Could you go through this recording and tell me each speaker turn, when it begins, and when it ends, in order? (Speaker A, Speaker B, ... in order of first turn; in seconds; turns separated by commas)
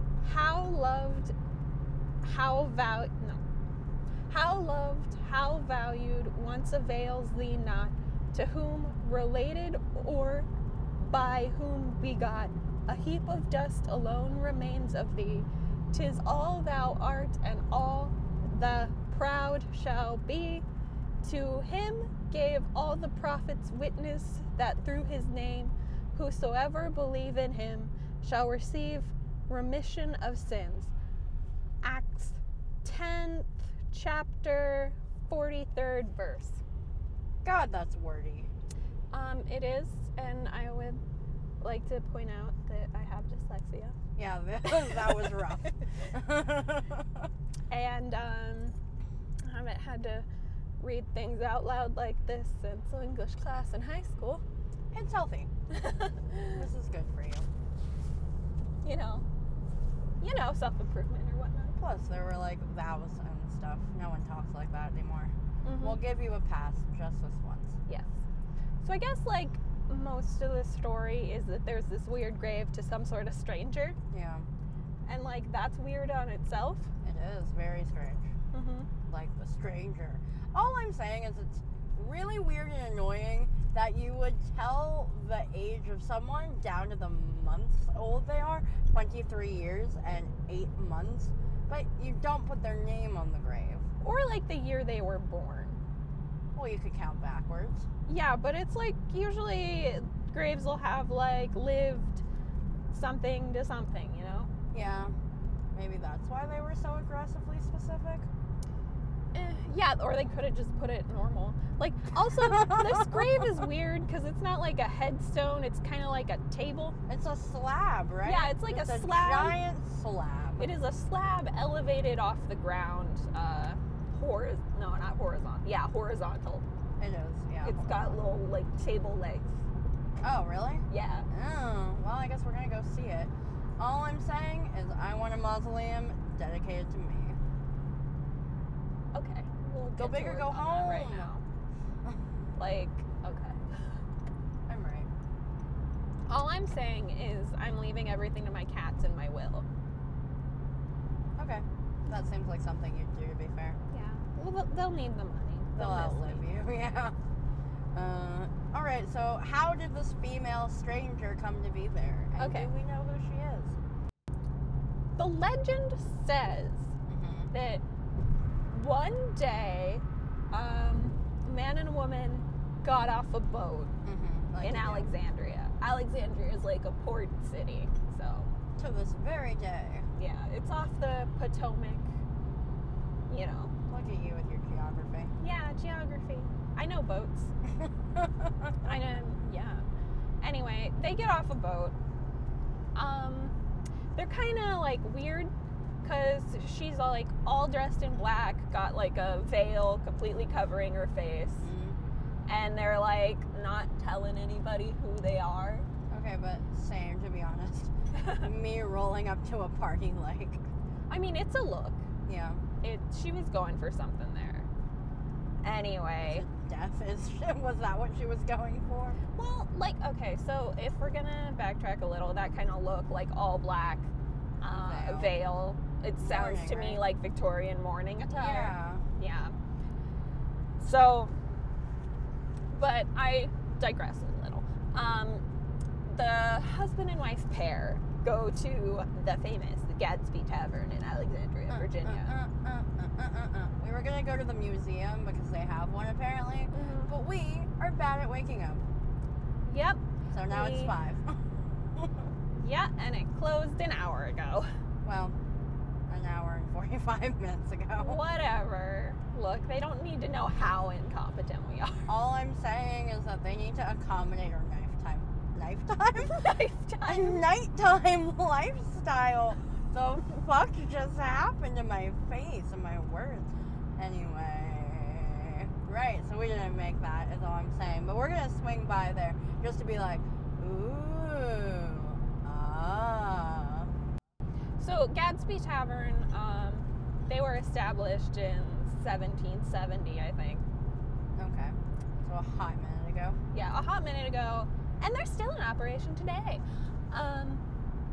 Speaker A: 0.2-1.3, Speaker A: 2.2-3.4, Speaker A: 4.3-10.5, Speaker A: 11.0-20.6, Speaker A: 21.2-30.9, Speaker A: 31.8-36.6, Speaker B: 37.4-38.5, Speaker A: 39.1-41.0, Speaker A: 41.6-43.9, Speaker B: 44.1-47.3, Speaker A: 47.7-48.7, Speaker A: 49.4-50.2, Speaker A: 50.8-54.4, Speaker B: 54.9-55.5, Speaker A: 55.7-56.6, Speaker B: 56.5-57.4, Speaker A: 58.8-59.2, Speaker A: 60.2-61.8, Speaker B: 61.8-67.8, Speaker A: 65.6-66.0, Speaker A: 67.9-68.1, Speaker A: 68.8-74.0, Speaker B: 74.1-74.5, Speaker A: 75.1-76.9, Speaker B: 77.0-78.3, Speaker A: 78.5-78.9, Speaker B: 79.1-93.8, Speaker A: 94.0-95.8, Speaker B: 96.5-97.8, Speaker A: 98.0-102.2, Speaker A: 102.9-104.5, Speaker B: 104.7-105.1, Speaker B: 105.7-108.3, Speaker A: 109.3-117.0, Speaker B: 112.4-113.3, Speaker B: 117.1-120.7, Speaker A: 118.2-119.6, Speaker A: 120.6-126.6, Speaker B: 127.0-128.2, Speaker A: 127.6-129.6, Speaker B: 130.2-137.4, Speaker A: 130.9-131.3, Speaker A: 139.1-141.4, Speaker B: 140.0-141.3, Speaker A: 142.6-143.6, Speaker B: 144.7-145.1, Speaker A: 146.3-149.6, Speaker B: 151.4-153.8, Speaker A: 153.9-156.5, Speaker B: 155.8-157.1, Speaker B: 157.9-163.7, Speaker A: 162.4-162.7, Speaker A: 165.2-166.9, Speaker B: 167.1-167.5, Speaker A: 167.5-167.8, Speaker A: 168.7-173.9, Speaker B: 174.0-175.1, Speaker A: 174.6-178.5, Speaker B: 178.8-180.1, Speaker A: 180.2-182.1, Speaker A: 183.3-183.7, Speaker B: 183.9-185.3, Speaker A: 185.4-187.5, Speaker B: 188.1-188.9, Speaker A: 188.8-189.8, Speaker A: 190.4-191.9, Speaker A: 192.9-193.5, Speaker A: 194.2-195.5, Speaker A: 196.0-201.7, Speaker B: 201.6-202.0, Speaker A: 202.4-205.8, Speaker B: 206.1-210.6, Speaker A: 208.2-208.4, Speaker A: 211.1-212.0, Speaker B: 212.2-212.6, Speaker A: 212.8-214.7, Speaker A: 215.6-216.4, Speaker B: 216.2-219.2, Speaker A: 219.4-224.1, Speaker A: 224.6-229.5, Speaker B: 224.7-225.4, Speaker B: 226.2-227.0, Speaker B: 228.3-229.0, Speaker A: 230.8-231.3, Speaker A: 232.7-235.4, Speaker A: 236.1-242.3, Speaker B: 241.7-248.8, Speaker A: 246.7-247.1, Speaker A: 249.6-250.9, Speaker B: 250.3-251.4, Speaker B: 251.9-252.3, Speaker A: 252.5-254.7, Speaker B: 255.0-255.3, Speaker B: 256.1-258.2, Speaker A: 258.0-262.1, Speaker B: 262.1-266.4, Speaker A: 266.2-267.4, Speaker B: 267.0-283.9, Speaker A: 284.8-290.6, Speaker B: 291.4-293.4, Speaker A: 293.5-297.6